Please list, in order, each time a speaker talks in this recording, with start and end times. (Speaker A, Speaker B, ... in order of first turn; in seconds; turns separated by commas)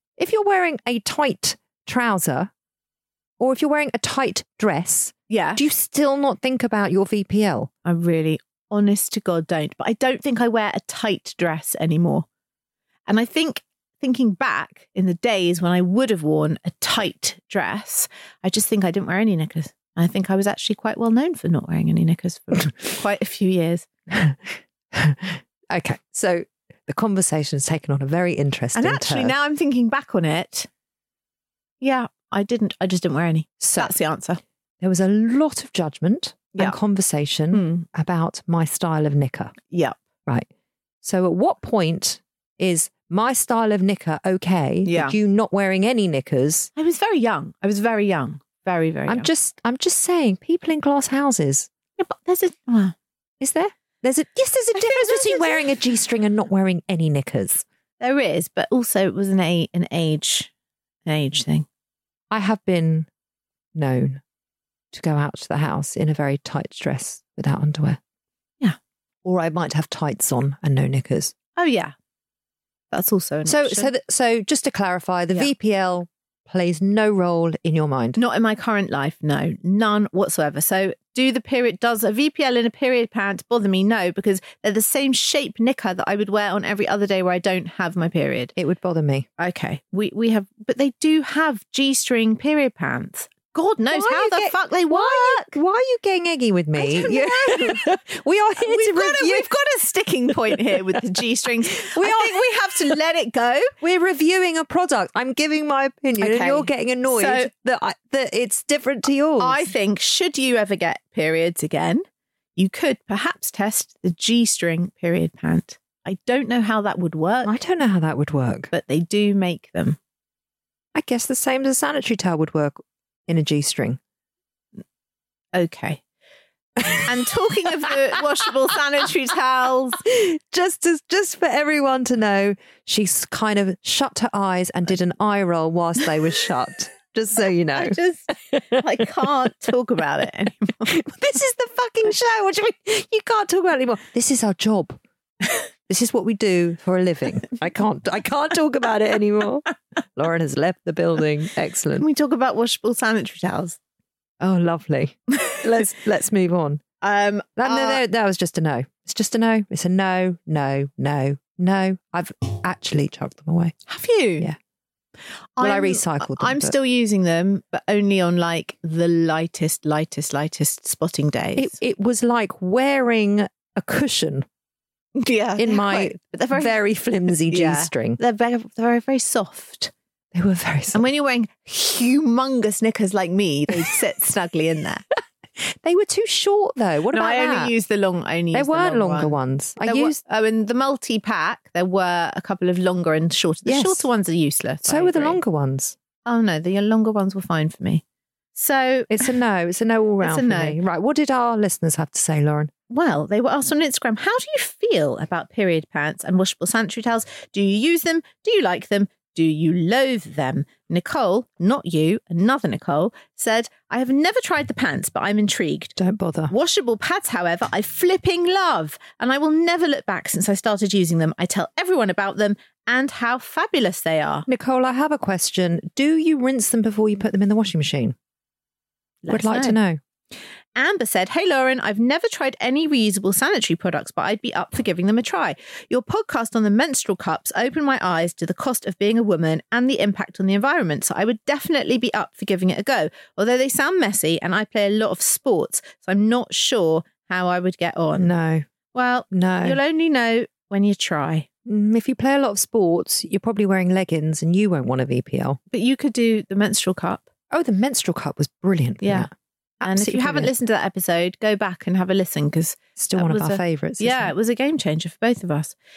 Speaker A: 0.2-2.5, Speaker A: 3.4-7.7, Speaker B: 5.3-5.6, Speaker B: 7.8-12.2, Speaker B: 13.1-23.9, Speaker A: 24.1-29.3, Speaker B: 28.7-30.7, Speaker B: 31.8-34.4, Speaker A: 33.6-34.0, Speaker A: 34.8-39.5, Speaker B: 37.5-37.8, Speaker B: 39.7-40.0, Speaker A: 41.0-46.7, Speaker B: 44.8-45.1, Speaker B: 46.8-49.3, Speaker A: 49.1-51.7, Speaker B: 52.0-52.9, Speaker A: 53.4-57.6, Speaker B: 54.7-55.7, Speaker B: 58.0-60.5, Speaker B: 61.0-61.6, Speaker A: 62.3-63.1, Speaker A: 63.7-64.2, Speaker A: 64.9-68.0, Speaker A: 69.2-71.3, Speaker B: 71.5-71.9, Speaker B: 72.9-73.9, Speaker A: 73.4-78.2, Speaker B: 78.2-88.5, Speaker A: 88.5-89.3, Speaker B: 89.4-95.5, Speaker A: 93.9-99.5, Speaker B: 96.8-97.9, Speaker B: 98.6-103.7, Speaker A: 101.8-102.5, Speaker A: 103.8-109.7, Speaker B: 106.2-107.5, Speaker B: 109.4-112.0, Speaker B: 112.5-117.5, Speaker A: 117.4-118.7, Speaker B: 118.7-120.0, Speaker A: 120.9-124.0, Speaker B: 125.5-126.0, Speaker B: 126.9-130.0, Speaker A: 130.0-138.0, Speaker B: 137.7-140.9, Speaker A: 138.5-139.0, Speaker A: 140.8-145.0, Speaker A: 145.9-152.1, Speaker B: 152.0-153.8, Speaker A: 154.4-156.8, Speaker B: 157.0-158.0, Speaker A: 157.6-163.8, Speaker B: 163.9-164.5, Speaker B: 165.6-171.7, Speaker A: 165.6-166.8, Speaker A: 171.6-174.5, Speaker B: 175.2-176.8, Speaker A: 175.6-178.2, Speaker B: 177.5-179.9, Speaker A: 180.3-181.0, Speaker B: 180.9-185.1, Speaker A: 185.6-187.7, Speaker B: 187.1-195.4, Speaker A: 188.5-190.2, Speaker A: 193.6-194.1, Speaker A: 194.8-195.9, Speaker B: 196.2-198.0, Speaker B: 198.5-199.3, Speaker A: 199.1-202.7, Speaker B: 200.2-200.8, Speaker B: 202.9-215.9, Speaker A: 216.0-216.5, Speaker B: 216.5-224.4, Speaker A: 224.5-228.2, Speaker B: 229.2-229.8, Speaker A: 229.3-230.0, Speaker B: 230.7-248.3, Speaker A: 248.2-248.7, Speaker B: 248.9-251.5, Speaker A: 249.3-249.8, Speaker A: 251.7-255.6, Speaker B: 255.7-257.3, Speaker A: 257.5-259.3, Speaker B: 259.0-259.3, Speaker A: 259.8-260.5, Speaker B: 259.8-265.7, Speaker A: 263.0-264.3